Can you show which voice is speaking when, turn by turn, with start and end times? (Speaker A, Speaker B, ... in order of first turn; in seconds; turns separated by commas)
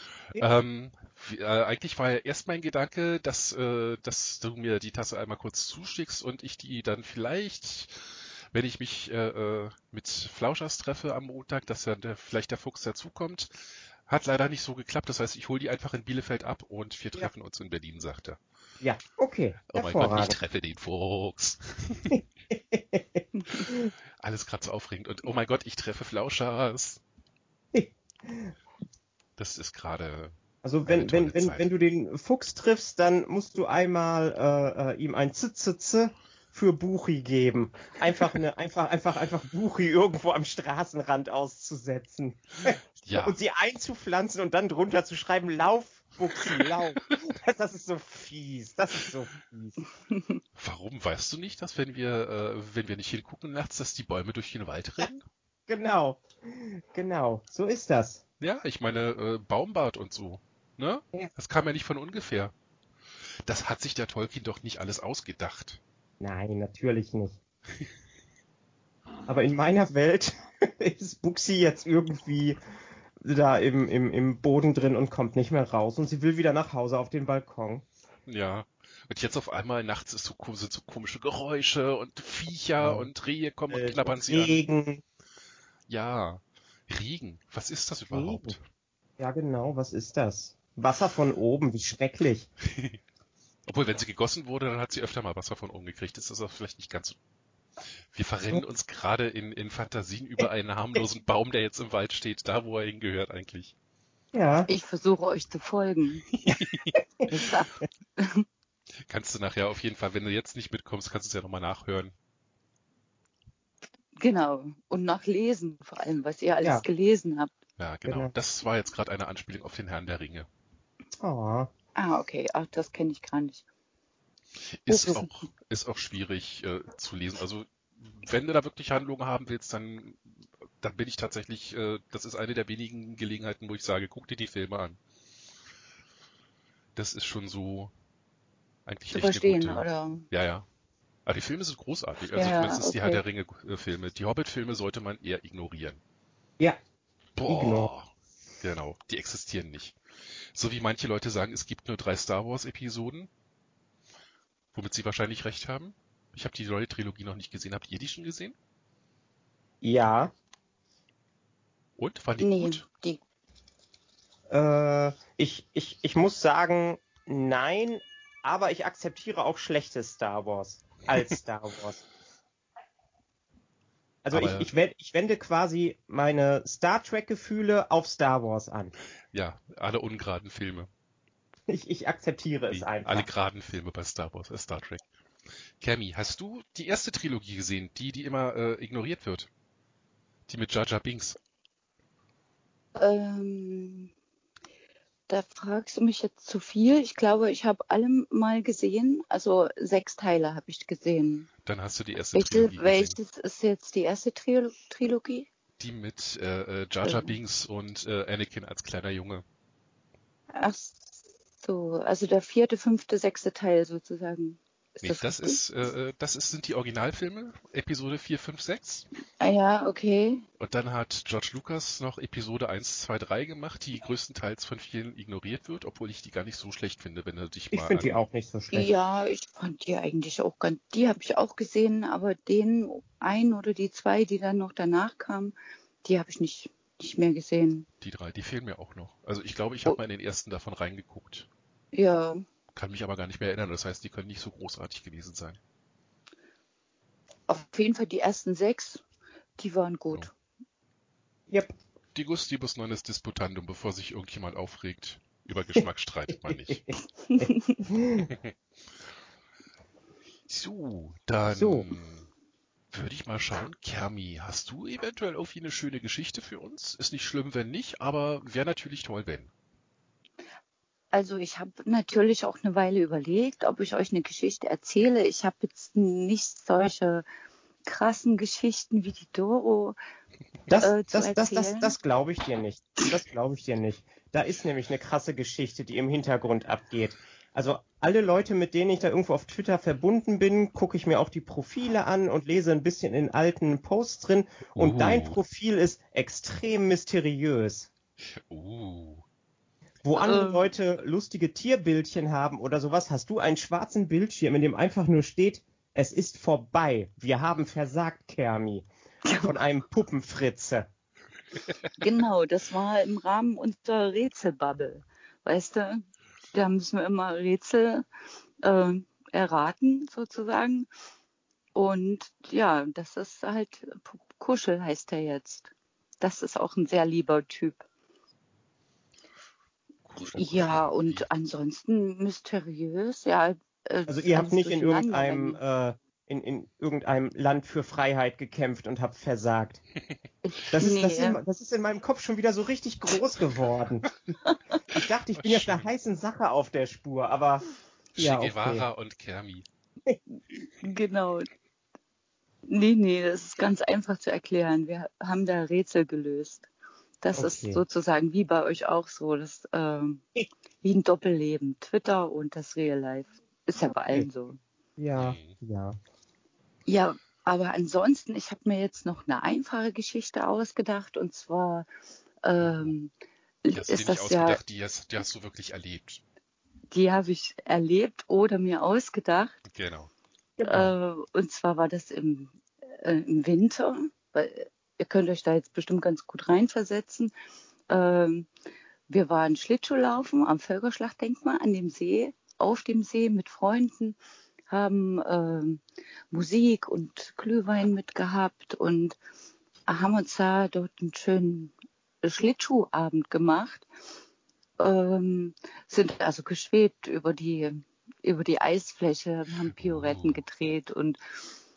Speaker A: 0.3-18.4, Speaker B: 18.8-20.4, Speaker A: 19.7-22.2, Speaker B: 22.1-23.8, Speaker C: 23.3-23.6, Speaker A: 23.6-27.0, Speaker B: 27.7-28.5, Speaker A: 29.4-30.3, Speaker B: 30.6-49.8, Speaker A: 30.9-31.7, Speaker A: 43.0-43.4, Speaker A: 46.5-47.1, Speaker A: 50.6-55.2, Speaker B: 55.7-58.2, Speaker A: 58.4-62.5, Speaker A: 63.4-65.8, Speaker B: 66.2-67.4, Speaker B: 69.3-72.6, Speaker B: 73.2-77.8, Speaker A: 78.2-84.6, Speaker B: 82.8-83.1, Speaker B: 83.7-85.0, Speaker A: 85.9-88.6, Speaker B: 88.1-88.5, Speaker B: 89.2-92.5, Speaker A: 92.7-93.0, Speaker A: 93.7-97.2, Speaker A: 98.1-103.7, Speaker B: 104.3-104.7, Speaker C: 104.7-106.2, Speaker A: 106.3-107.0, Speaker C: 107.3-108.5, Speaker A: 109.0-112.1, Speaker C: 114.2-117.5, Speaker A: 117.8-120.5, Speaker B: 118.1-118.3, Speaker B: 121.2-121.7, Speaker C: 121.9-123.6, Speaker A: 124.7-135.0, Speaker C: 124.9-125.3, Speaker A: 136.9-137.9, Speaker A: 138.8-140.7, Speaker C: 139.1-140.3, Speaker A: 141.2-146.0, Speaker C: 142.3-143.2, Speaker A: 147.3-150.0, Speaker B: 147.4-147.9, Speaker A: 150.5-153.3, Speaker A: 154.7-158.6, Speaker B: 159.8-160.3, Speaker A: 162.0-162.8, Speaker C: 162.4-163.2, Speaker B: 164.5-172.0, Speaker B: 174.2-178.9, Speaker A: 174.3-174.7, Speaker A: 179.3-180.9, Speaker B: 181.7-183.3, Speaker A: 182.7-185.1, Speaker A: 185.8-189.5, Speaker A: 190.5-191.4, Speaker C: 192.9-194.1, Speaker C: 195.3-201.5, Speaker A: 201.6-203.2, Speaker C: 202.3-205.5, Speaker A: 205.8-209.4, Speaker C: 207.0-207.3, Speaker C: 210.5-215.6, Speaker A: 215.0-219.1, Speaker C: 219.4-220.4, Speaker A: 220.6-228.2, Speaker B: 227.7-228.9, Speaker C: 228.7-237.9, Speaker A: 238.0-241.5, Speaker C: 241.9-242.4, Speaker A: 242.7-245.6, Speaker C: 247.5-249.0, Speaker C: 249.6-250.3, Speaker B: 251.5-251.7, Speaker A: 252.1-256.8, Speaker B: 256.3-258.3, Speaker C: 257.3-257.8, Speaker A: 258.2-258.5, Speaker A: 260.5-262.3, Speaker B: 261.5-261.9, Speaker A: 262.9-269.5, Speaker C: 271.1-277.2, Speaker C: 277.8-280.0, Speaker B: 280.7-297.9, Speaker C: 280.8-281.9, Speaker A: 294.8-295.4, Speaker A: 298.3-299.2, Speaker B: 300.0-308.9, Speaker C: 300.1-300.7, Speaker C: 309.3-309.6, Speaker B: 309.4-310.9, Speaker C: 311.9-318.1, Speaker C: 318.6-320.9, Speaker C: 321.7-327.8, Speaker A: 330.1-331.3, Speaker C: 330.3-335.6, Speaker B: 334.1-339.8, Speaker C: 340.4-341.4, Speaker B: 340.7-344.1, Speaker B: 344.9-347.6, Speaker A: 345.3-345.9, Speaker A: 348.1-349.6, Speaker B: 348.2-348.9, Speaker C: 350.8-351.5, Speaker C: 352.6-356.7, Speaker C: 357.2-364.6, Speaker B: 357.4-357.8, Speaker B: 365.0-366.0, Speaker A: 365.1-365.6, Speaker C: 366.9-371.9, Speaker C: 372.4-373.1, Speaker A: 372.6-372.9, Speaker C: 373.6-374.6, Speaker A: 373.7-376.2, Speaker C: 376.9-379.6, Speaker A: 379.7-380.1, Speaker B: 380.6-380.9, Speaker C: 380.6-387.3, Speaker C: 387.9-388.5, Speaker C: 389.1-394.2, Speaker C: 394.7-399.2, Speaker C: 399.9-403.9, Speaker C: 404.8-411.2, Speaker A: 409.7-410.4